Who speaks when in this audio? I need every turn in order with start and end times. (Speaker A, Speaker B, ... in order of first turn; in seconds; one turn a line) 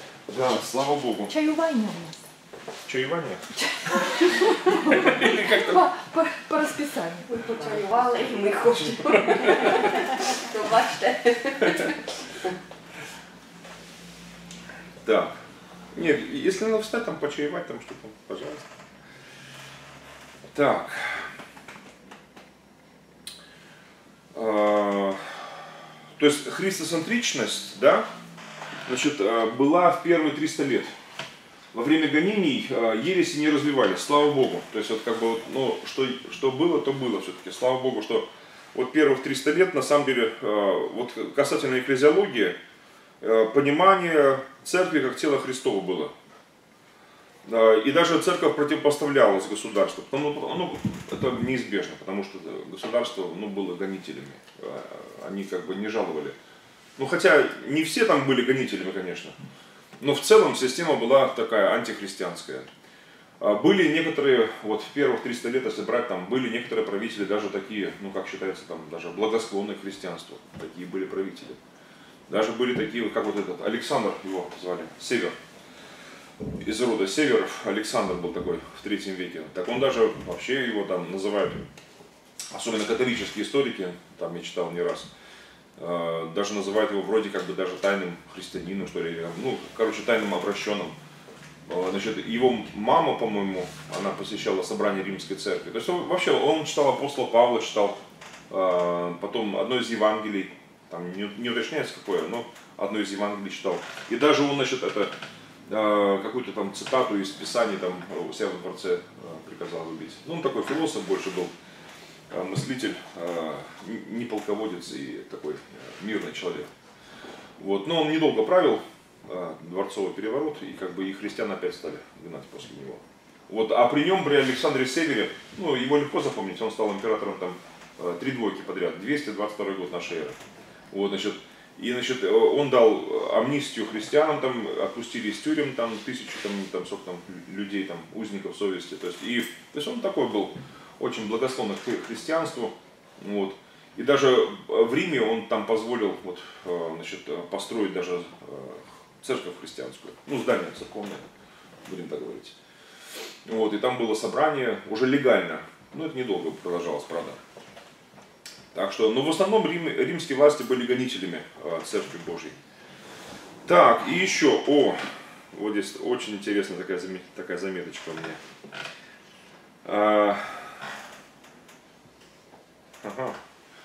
Speaker A: 0.3-1.3
Speaker B: 1.3-2.3
Speaker A: 2.9-3.4
Speaker B: 3.6-7.3
Speaker A: 4.9-5.8
Speaker C: 7.3-12.5
Speaker A: 15.0-15.4
Speaker A: 15.9-18.6
Speaker A: 20.5-21.3
Speaker A: 24.3-25.4
Speaker A: 26.2-28.1
Speaker A: 28.9-30.9
Speaker A: 31.7-42.6
Speaker A: 43.2-46.1
Speaker A: 47.5-56.4
Speaker A: 57.0-59.4
Speaker A: 60.0-62.7
Speaker A: 63.4-71.6
Speaker A: 72.3-75.4
Speaker A: 76.6-81.7
Speaker A: 82.5-85.1
Speaker A: 85.8-91.0
Speaker A: 91.7-105.1
Speaker A: 105.7-111.5
Speaker A: 112.3-116.7
Speaker A: 117.6-130.4
Speaker A: 130.9-151.2
Speaker A: 151.9-152.6
Speaker A: 153.5-157.4
Speaker A: 158.7-162.6
Speaker A: 163.7-165.0
Speaker A: 165.5-168.4
Speaker A: 169.8-170.8
Speaker A: 173.0-173.4